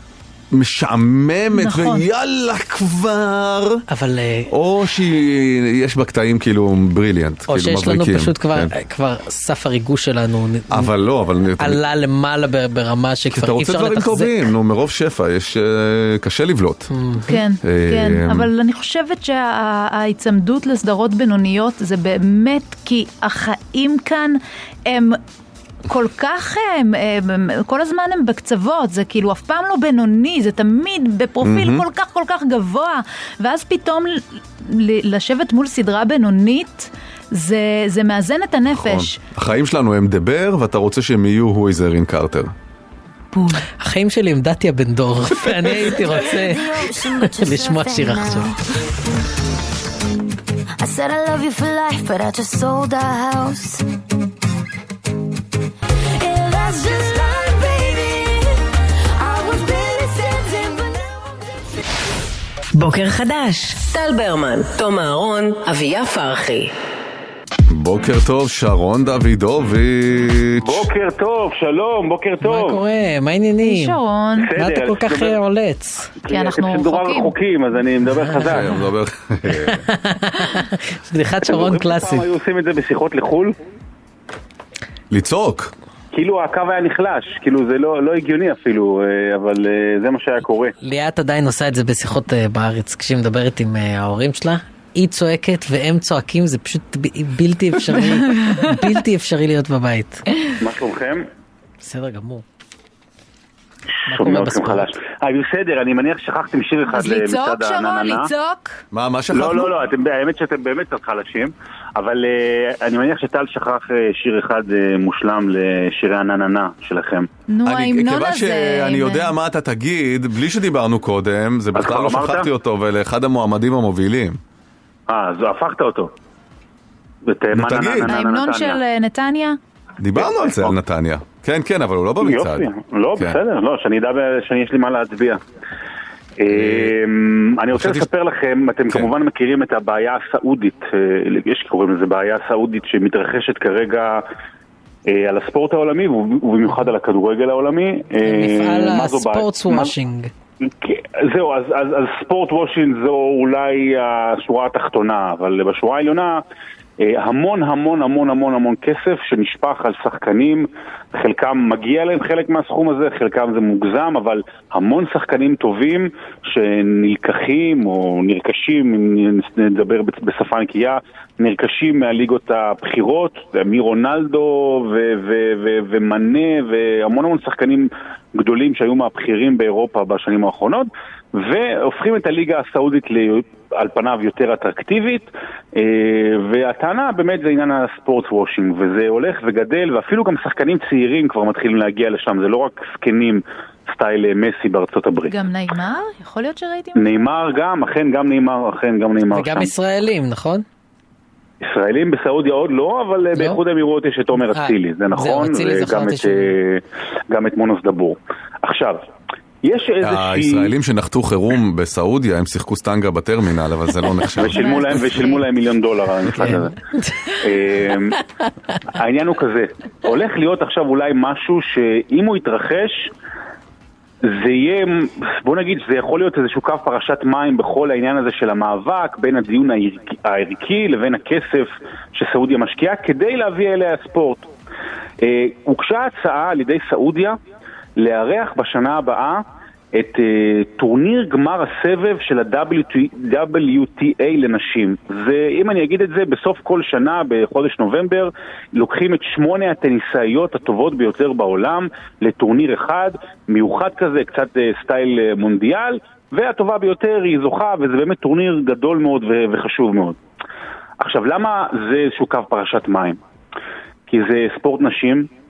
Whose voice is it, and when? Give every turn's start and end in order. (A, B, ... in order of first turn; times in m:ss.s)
0:00.5-0:03.8 A
0:01.5-0:02.0 B
0:03.9-0:04.5 C
0:04.5-0:08.7 A
0:07.5-0:10.9 C
0:10.7-0:11.8 A
0:11.6-0:14.4 C
0:13.3-0:16.9 A
0:16.9-0:17.4 C
0:17.3-0:25.2 B
0:17.6-0:18.5 A
0:25.9-0:39.2 B
0:31.4-0:31.8 A
0:38.7-0:42.5 A
0:43.3-0:43.6 B
0:43.8-0:48.6 C
0:46.2-0:48.6 D
0:50.8-0:53.8 D
0:56.2-0:58.5 D
0:59.2-1:01.4 D
1:02.7-1:06.7 E
1:07.7-1:10.8 A
1:10.6-1:12.8 F
1:12.4-1:14.0 C
1:13.6-1:14.5 B
1:14.4-1:15.4 F
1:14.6-1:16.1 C
1:16.2-1:18.8 F
1:16.3-1:17.3 B
1:18.2-1:18.8 C
1:18.4-1:19.8 A
1:19.6-1:22.2 C
1:21.4-1:23.6 F
1:25.1-1:25.7 A
1:26.1-1:30.7 F
1:30.8-1:40.2 C
1:40.6-1:41.2 F
1:41.8-1:42.4 C
1:44.1-1:44.9 C
1:44.1-1:48.3 F
1:46.9-1:48.8 B
1:48.9-1:49.7 A
1:49.3-1:57.3 F
1:57.5-1:59.3 B
1:57.6-2:04.4 A
2:01.7-2:02.5 F
2:05.1-2:06.1 F
2:07.2-2:08.8 F
2:07.5-2:08.2 A
2:08.1-2:09.6 B
2:10.0-2:12.6 A
2:10.2-2:10.8 F
2:12.2-2:15.4 F
2:16.4-2:24.2 F
2:16.5-2:16.9 A
2:17.7-2:18.1 A
2:25.1-2:29.9 F
2:28.2-2:30.3 C
2:30.6-2:36.4 F
2:37.0-3:15.3 F
3:15.3-3:17.3 B
3:17.0-3:19.7 F
3:19.3-3:20.6 C
3:21.6-3:29.0 F
3:24.5-3:26.6 C
3:29.6-3:30.7 F
3:30.0-3:35.0 A
3:34.4-3:36.8 F
3:34.4-3:35.4 B
3:36.4-3:37.4 C
3:37.4-3:38.2 F
3:39.0-3:43.1 F
3:44.2-3:54.5 F
3:55.2-3:57.4 F
3:58.0-3:59.4 F
3:59.9-4:20.2 F
4:21.0-4:23.2 F
4:24.1-4:25.3 F